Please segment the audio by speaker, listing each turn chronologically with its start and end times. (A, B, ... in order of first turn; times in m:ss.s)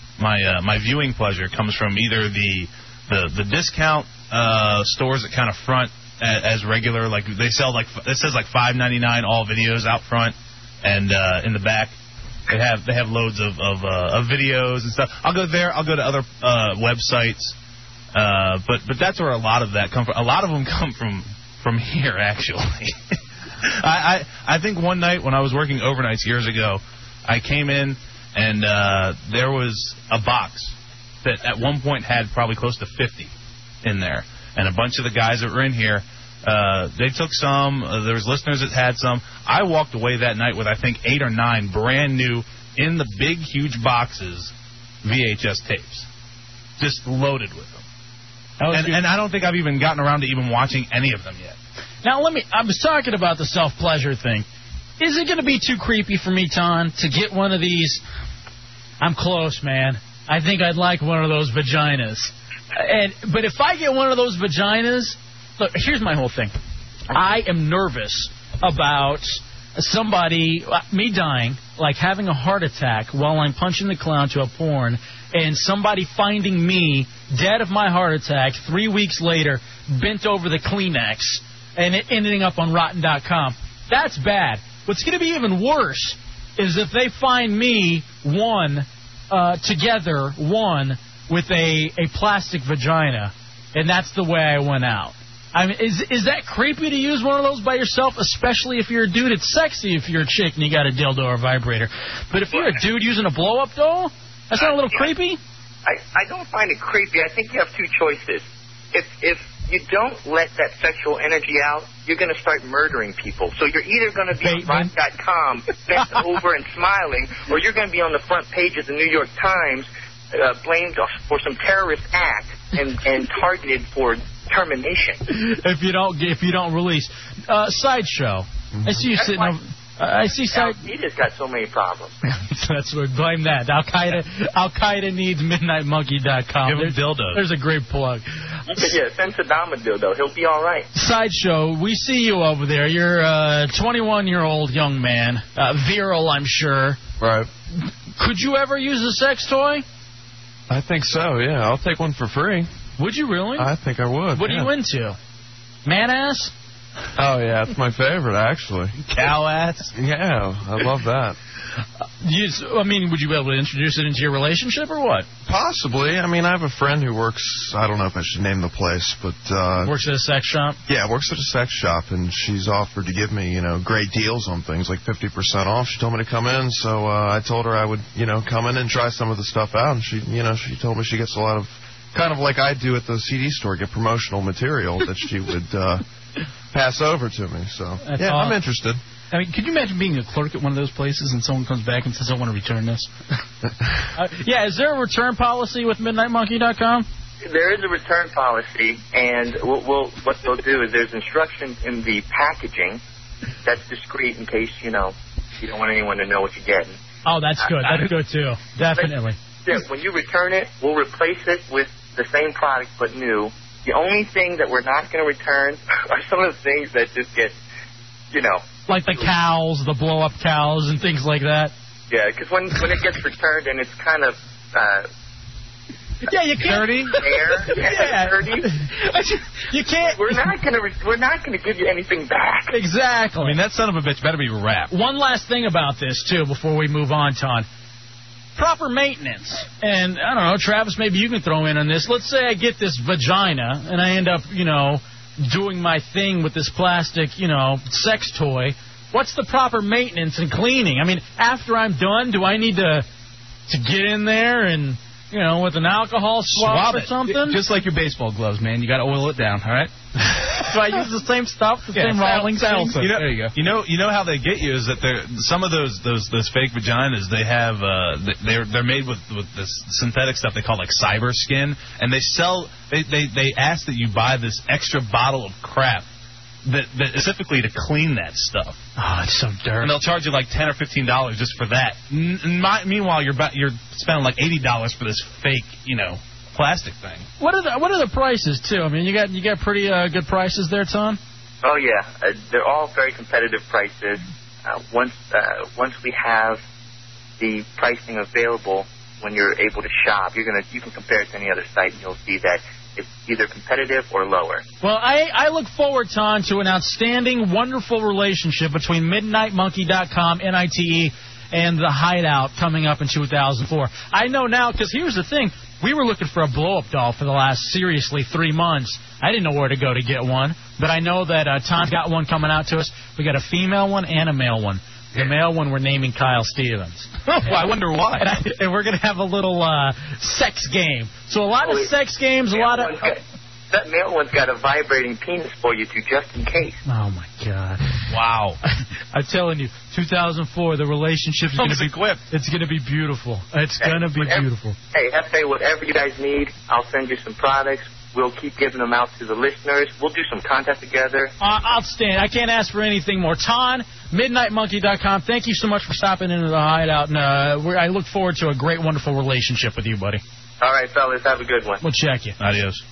0:00.2-0:11.9 A
0:12.5-0:17.5 A
0:18.1-0:44.5 A
0:45.0-0:46.1 A
0:46.8-0:47.8 A
0:48.6-0:49.0 B
0:48.7-0:51.6 A
0:52.0-0:54.4 B
0:55.0-0:58.0 B
0:59.0-1:06.5 B
1:07.1-1:45.4 B
1:42.5-1:42.8 C
1:44.5-1:45.1 C
1:45.8-2:05.2 C
1:54.4-1:54.9 B
2:05.3-2:10.8 B
2:09.1-2:09.5 C
2:10.2-2:12.2 C
2:12.2-2:18.8 B
2:16.6-2:17.4 A
2:18.7-2:20.9 C
2:20.9-2:27.0 B
2:27.2-2:27.5 D
2:28.2-2:29.8 B
2:30.7-2:32.7 D
2:33.0-2:33.7 B
2:33.6-2:34.7 D
2:34.3-2:35.2 B
2:35.8-2:36.5 B
2:37.2-2:39.0 D
2:39.1-2:39.9 A
2:39.9-2:41.4 D
2:42.2-2:45.2 B
2:45.4-2:49.9 D
2:49.8-2:50.8 B
2:50.9-3:06.0 D
3:06.7-3:09.0 D
3:08.0-3:08.6 B
3:09.3-3:13.0 E
3:14.1-3:17.0 B
3:17.4-3:23.0 C
3:23.6-3:27.0 C
3:27.2-3:29.4 B
3:27.6-3:28.0 C
3:29.6-3:37.6 C
3:38.3-3:39.3 C
3:38.9-3:41.7 B
3:42.1-3:45.0 C
3:46.2-3:50.5 B
3:46.6-3:47.2 A
3:47.1-3:48.6 C
3:50.0-3:52.7 C
3:52.7-3:53.6 B
3:53.4-3:54.9 A
3:54.9-3:57.6 B
3:58.6-4:13.0 B
4:13.7-4:17.6 B
4:16.6-4:17.1 A
4:16.8-4:19.9 E
4:20.6-4:23.1 B
4:21.9-4:23.5 E
4:22.9-4:36.0 A
4:36.6-4:38.8 A
4:39.0-4:39.9 B
4:39.8-4:47.3 A
4:47.4-4:51.2 B
4:51.6-4:56.6 C
4:57.4-5:04.6 C
5:04.8-5:27.6 B
5:27.3-5:28.3 A
5:28.2-5:33.1 B
5:31.6-5:31.9 C
5:32.5-5:36.8 C
5:36.8-5:38.0 B
5:38.1-5:38.6 A
5:39.1-5:44.8 B
5:41.6-5:42.2 A
5:43.8-5:51.3 C
5:51.4-6:00.2 B
6:00.6-6:01.8 C
6:01.8-6:02.4 B
6:02.4-6:02.8 A